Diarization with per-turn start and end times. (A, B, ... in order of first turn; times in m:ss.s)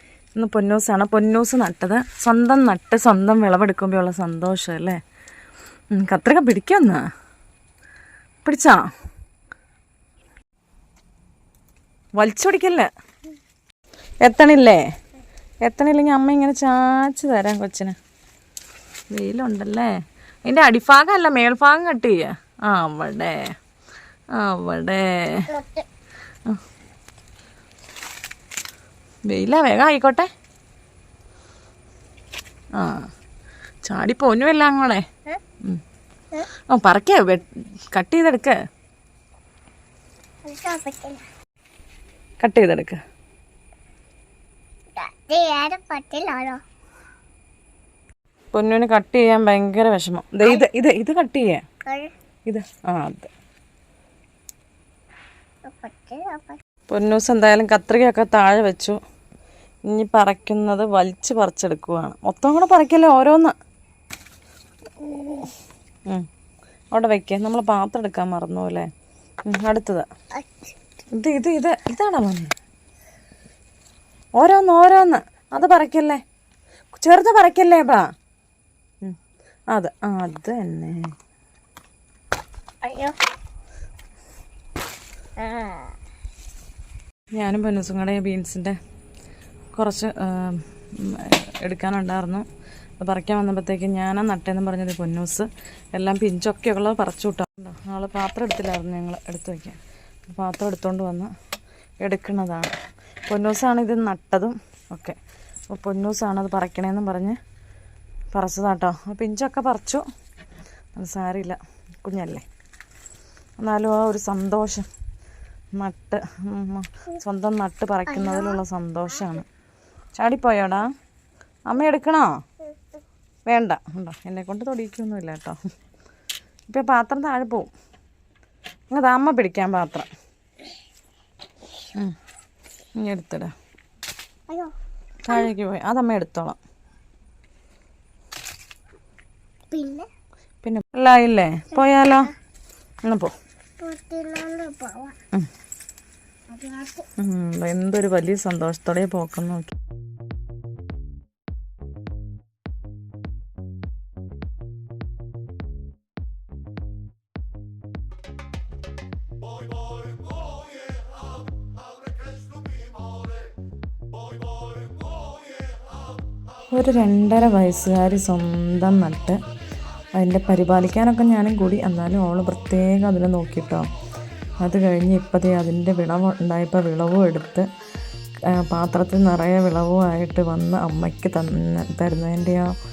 0:00.4-0:05.0 A
0:05.9-0:07.1 A
0:08.4-0:08.9 A
0:12.2-0:12.9 A
0:14.2-0:14.8 A
0:15.6-0:18.0 A
0:19.1-0:23.6 A
0:24.3-0:25.5 A
0:25.5-0:25.9 B
0:29.3-0:30.3 A
0:32.8-0:33.1 A
0:33.8-0:35.1 A
0:36.7-0:38.6 A
0:40.4-0:41.2 B
0:42.4-0:43.0 A
0:45.0-0:46.6 B
0:48.5-0:51.6 A
0:51.8-0:52.1 B
0:52.5-0:53.3 A
0:55.7-0:56.6 B
0:56.9-0:59.0 A
0:59.9-1:03.6 A
1:05.0-1:05.5 B
1:06.9-1:08.9 A
1:09.5-1:10.1 A
1:10.3-1:10.7 B
1:11.1-1:12.5 A
1:14.4-1:16.2 A
1:16.9-1:18.1 A
1:19.7-1:21.1 A
1:22.8-1:23.2 B
1:25.4-1:25.9 B
1:27.3-1:28.8 A
1:29.7-1:32.4 A
1:33.0-1:41.3 A
1:42.0-1:42.7 A
1:43.3-1:45.2 A
1:45.7-1:47.4 A
1:48.3-1:50.0 A
1:51.0-1:52.4 A
1:53.6-1:54.9 A
1:55.8-1:59.5 A
1:58.1-1:58.6 B
2:00.2-2:00.9 A
2:01.7-2:02.4 A
2:03.5-2:05.6 A
2:06.7-2:07.7 A
2:08.9-2:10.1 A
2:13.0-2:13.5 A
2:15.2-2:16.6 A
2:19.7-2:20.1 B
2:20.6-2:22.3 A
2:21.8-2:22.3 B
2:23.0-2:23.3 A
2:23.8-2:25.2 B
2:26.5-2:27.1 B
2:27.2-2:29.7 A
2:46.7-2:49.4 A
2:50.2-2:53.9 A
2:54.6-2:57.7 A
2:58.5-3:02.8 A